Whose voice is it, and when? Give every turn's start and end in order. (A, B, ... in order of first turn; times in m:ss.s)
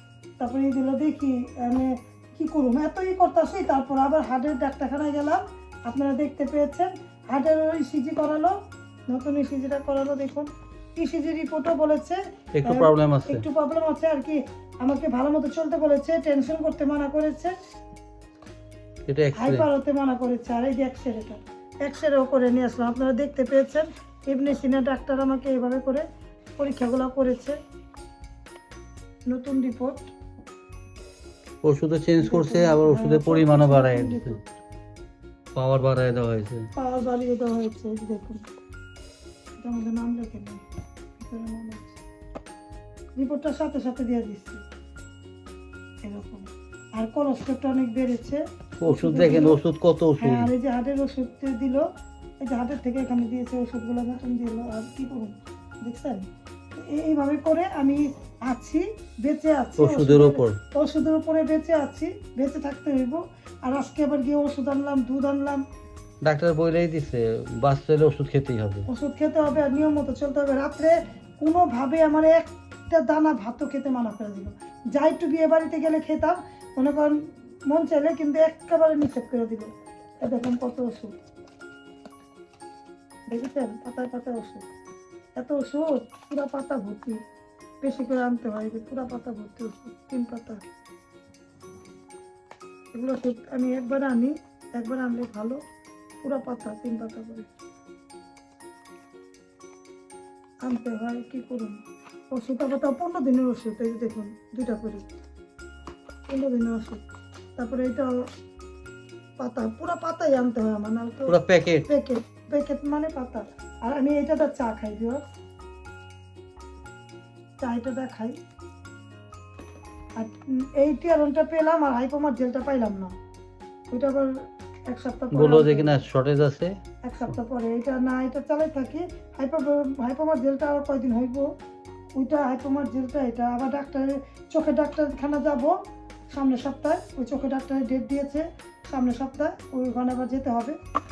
0:00.4-0:08.6 A
0:09.1-0:17.5 A
0:12.5-0:13.4 B
0:19.1-0:19.7 B
0:19.4-0:26.0 A
0:26.6-0:27.6 A
0:29.3-0:30.0 A
0:31.6-0:34.3 B
0:32.2-0:34.4 A
0:35.5-0:36.7 B
0:36.8-0:38.4 A
0:39.6-0:40.6 A
0:41.2-0:42.0 A
0:43.2-0:44.6 A
0:46.0-0:49.6 A
0:48.8-0:50.5 B
0:50.2-0:51.8 A
0:52.4-1:05.6 A
0:59.8-1:00.6 B
1:06.2-1:08.8 B
1:08.9-1:19.7 A
1:20.2-1:21.1 A
1:23.3-1:24.7 A
1:25.4-1:27.2 A
1:27.8-1:30.6 A
1:32.9-1:35.6 A
1:36.2-1:37.5 A
1:40.6-1:41.8 A
1:42.3-1:45.0 A
1:46.3-1:47.0 A
1:47.6-1:48.2 A
1:49.4-1:55.2 A
1:51.3-1:51.9 B
1:57.6-1:58.4 A
2:00.2-2:03.1 A
2:03.9-2:06.0 A
2:05.3-2:06.8 B
2:07.0-2:11.5 A
2:12.1-2:15.7 A
2:16.3-2:20.8 A